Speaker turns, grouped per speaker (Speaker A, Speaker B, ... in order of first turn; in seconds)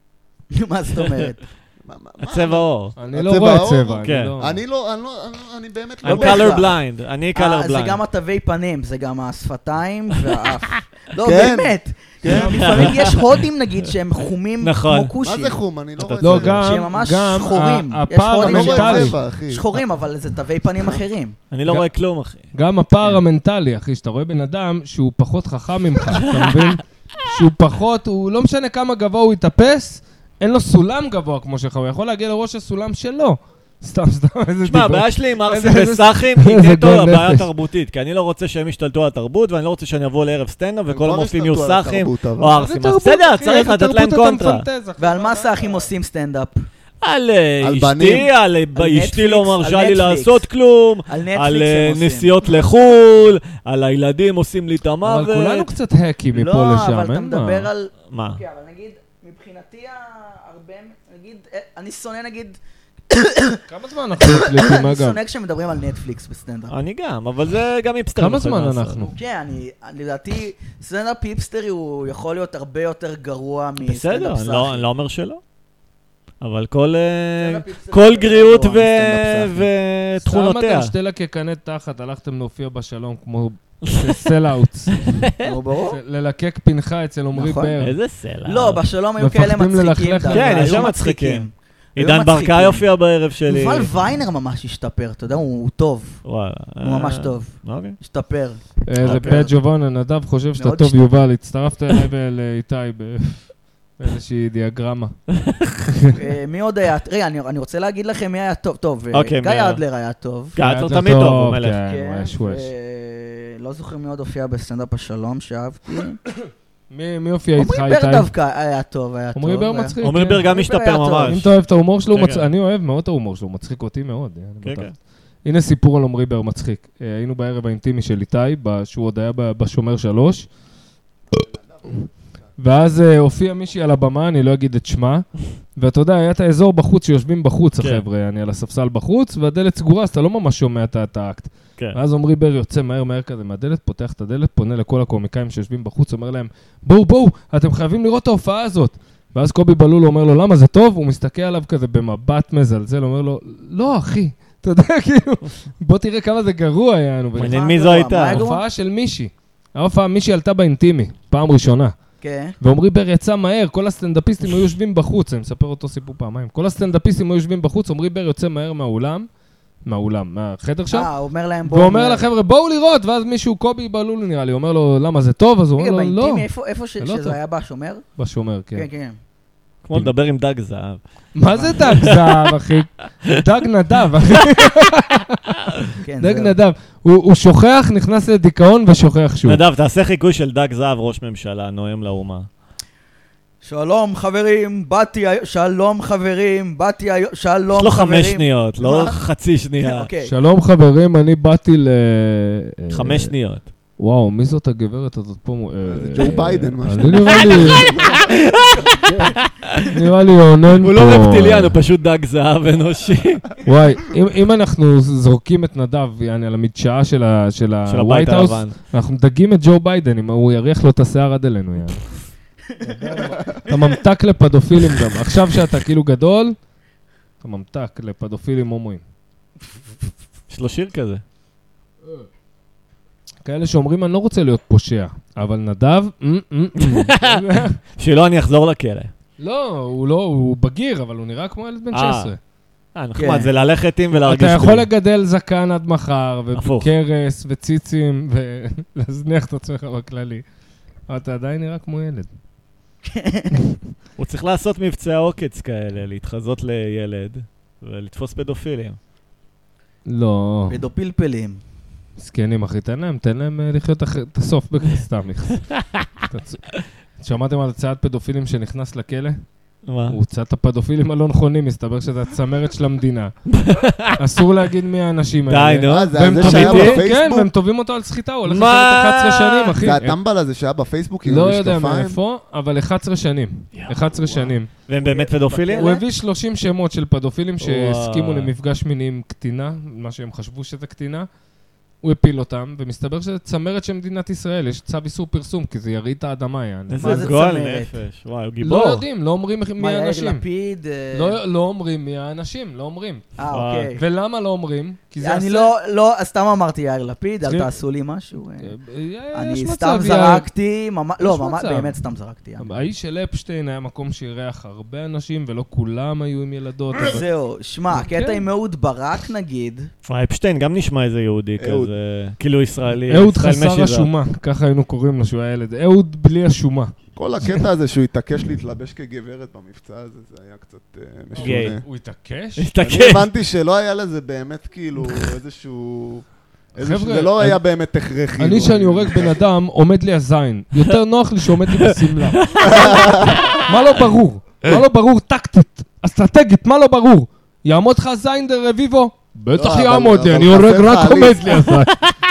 Speaker A: 0.5-1.4, 6.0-6.8, 7.3-15.6, 16.6-21.4, 45.0-46.6, 48.7-50.4, 51.1-52.5, 56.3-62.6, 63.1-63.6, 64.3-66.8, 69.0-74.8, 77.4-79.7, 85.4-86.0, 87.3-87.7, 88.4-92.8, 93.5-96.2, 96.8-99.5, 100.6-101.0, 106.1-110.6, 111.9-116.2, 117.6-120.0, 120.5-121.4, 157.4-158.6, 162.2-162.5, 170.9-172.3, 175.8-178.1, 178.7-179.2, 186.0-186.6, 193.6-198.4, 199.8-200.3, 222.8-223.3, 243.2-243.5, 253.1-253.6, 260.7-261.6, 285.0-286.0, 297.0-297.9, 299.8-301.4, 303.4-304.0, 305.2-308.7, 309.3-312.8, 317.0-319.9
Speaker B: 1.0-1.2, 2.3-3.0, 4.0-4.3, 6.0-8.0, 12.5-13.4, 14.6-15.1, 16.0-16.7, 21.5-22.5, 34.6-44.6, 47.0-55.7, 58.1-58.4, 66.7-69.0, 73.8-75.4, 76.4-80.9, 83.8-84.3, 84.9-85.6, 87.8-88.8, 90.3-93.9, 96.2-98.0, 99.0-99.5, 105.3-105.8, 109.1-109.8, 110.5-111.8, 120.0-121.5, 122.1-122.5, 124.6-124.9, 157.3-158.4, 179.8-181.0, 189.4-192.5, 197.7-200.1, 202.9-203.6, 207.3-209.9, 210.8-213.5, 217.9-218.7, 230.5-231.2, 236.8-239.1, 241.9-242.3, 242.9-244.9, 246.6-246.9, 254.2-259.0, 269.9-270.2, 273.5-274.2, 275.5-277.1, 278.4-279.7, 284.9-286.0, 287.6-288.5, 296.9-299.0, 303.5-303.9, 320.1-324.1, 331.4-331.8, 332.6-333.3, 342.4-343.5
Speaker C: 1.8-6.7, 11.2-12.9, 15.2-16.7, 18.4-19.6, 40.9-42.6, 47.6-48.3, 131.4-132.1, 198.8-199.1, 205.8-208.4, 275.9-277.5, 279.8-282.2, 284.2-284.5, 321.6-321.9, 327.1-331.8, 332.8-339.4, 342.6-343.6, 349.5-351.6
Speaker D: 3.0-4.6, 12.3-12.8, 16.2-19.2, 22.5-37.5, 42.5-45.9, 55.0-57.7, 63.7-65.2, 68.2-69.1, 80.2-85.2, 85.9-88.0, 89.2-90.9, 98.8-105.2, 105.9-106.1, 110.6-112.7, 116.5-118.3, 119.3-120.5, 121.2-124.9, 125.4-130.5, 132.6-157.6, 158.3-161.9, 162.6-169.3, 169.8-171.1, 171.7-176.5, 177.0-177.4, 178.2-178.9, 181.3-189.6, 200.2-203.3, 204.0-207.8, 209.8-211.8, 213.6-222.1, 222.8-226.6, 227.4-229.0, 233.4-237.8, 239.4-242.4, 244.1-250.4, 251.1-252.3, 260.1-260.8, 262.2-265.7, 266.3-269.4, 270.1-273.3, 274.1-280.2, 281.2-284.7, 285.8-291.3, 292.0-297.3, 298.6-300.4, 301.1-303.3, 303.9-305.7, 307.4-307.7, 308.6-310.5, 311.2-312.0, 312.6-317.2, 317.9-318.4, 323.1-327.6, 331.3-332.6, 336.8-337.6, 338.4-352.0